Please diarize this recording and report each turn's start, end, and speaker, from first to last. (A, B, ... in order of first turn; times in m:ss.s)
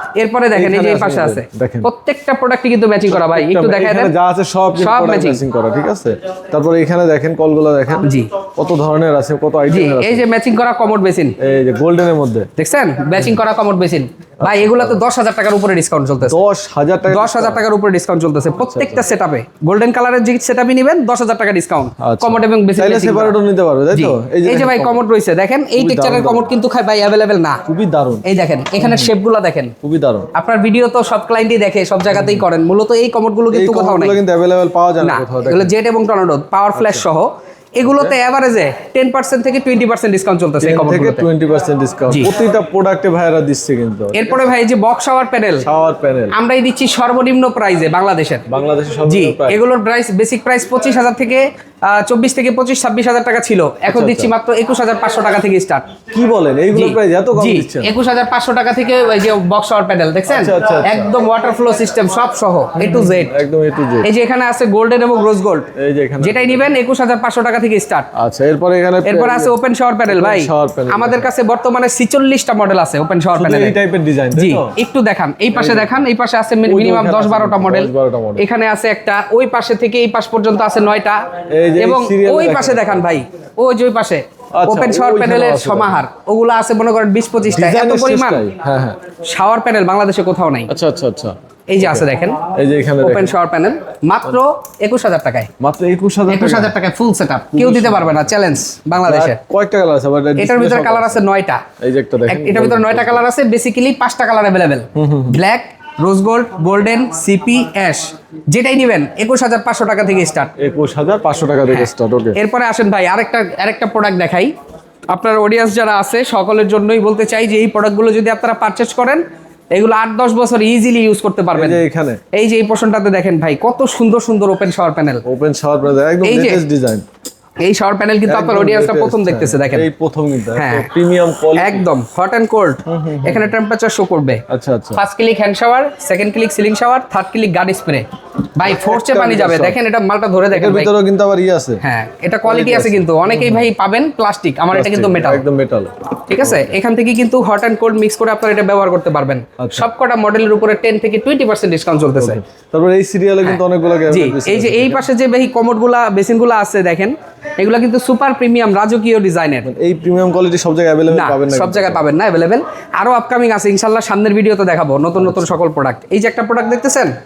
0:00.2-0:04.1 A
0:00.5-0:01.9 B
0:03.1-0:10.2 B
0:04.8-0:05.4 A
0:08.0-0:08.3 A
0:09.7-0:11.4 A
0:11.4-0:12.5 B
0:12.6-0:16.4 A
0:14.4-0:15.1 B
0:16.2-0:17.6 B
0:17.1-0:23.4 A
0:18.6-0:19.0 B
0:22.0-0:25.0 B
0:23.9-0:27.6 A
0:25.8-0:26.5 B
0:27.7-0:28.2 B
0:28.2-0:29.7 A
0:28.8-0:29.1 B
0:29.8-0:30.3 B
0:30.3-0:34.2 A
0:32.1-0:32.4 B
0:33.5-0:35.7 B
0:35.0-0:41.3 A
0:36.7-0:37.0 B
0:37.8-0:38.2 B
0:40.6-0:44.6 B
0:44.1-0:45.6 A
0:45.6-0:46.3 B
0:46.3-0:48.4 A
0:48.5-0:49.6 B
0:49.1-0:55.9 A
0:53.9-0:54.3 B
0:56.1-0:57.9 B
0:56.7-1:03.3 A
1:00.3-1:01.1 B
1:02.7-1:04.1 B
1:04.0-1:08.1 A
1:05.7-1:06.6 B
1:08.1-1:09.5 B
1:09.0-1:13.8 A
1:10.1-1:11.3 B
1:13.3-1:14.7 B
1:14.3-1:21.2 A
1:15.5-1:16.0 B
1:16.6-1:18.4 B
1:21.5-1:23.2 B
1:21.8-1:28.5 A
1:24.6-1:26.0 B
1:27.4-1:29.0 B
1:29.2-1:30.7 A
1:30.7-1:33.3 B
1:31.7-1:32.4 A
1:33.0-1:35.5 A
1:35.6-1:36.7 B
1:36.3-1:39.4 A
1:37.5-1:38.3 B
1:39.0-1:41.2 B
1:40.4-1:41.6 A
1:41.8-1:43.2 B
1:42.3-1:50.5 A
1:44.9-1:45.4 B
1:50.6-1:52.4 B
1:51.7-1:54.5 A
1:55.1-2:01.8 A
2:01.5-2:02.2 B
2:02.3-2:05.2 A
2:05.2-2:07.0 B
2:06.2-2:06.6 A
2:07.6-2:09.9 A
2:08.2-2:11.9 B
2:10.6-2:10.9 A
2:11.5-2:14.4 A
2:12.8-2:13.5 B
2:14.5-2:15.0 B
2:14.9-2:20.9 A
2:18.6-2:19.8 B
2:20.5-2:21.8 B
2:21.8-2:25.4 A
2:22.4-2:23.7 B
2:24.7-2:26.7 B
2:26.2-2:32.4 A
2:29.6-2:29.9 B
2:32.2-2:35.1 B
2:33.4-2:39.7 A
2:39.6-2:42.0 B
2:41.1-2:47.1 A
2:45.2-2:45.6 B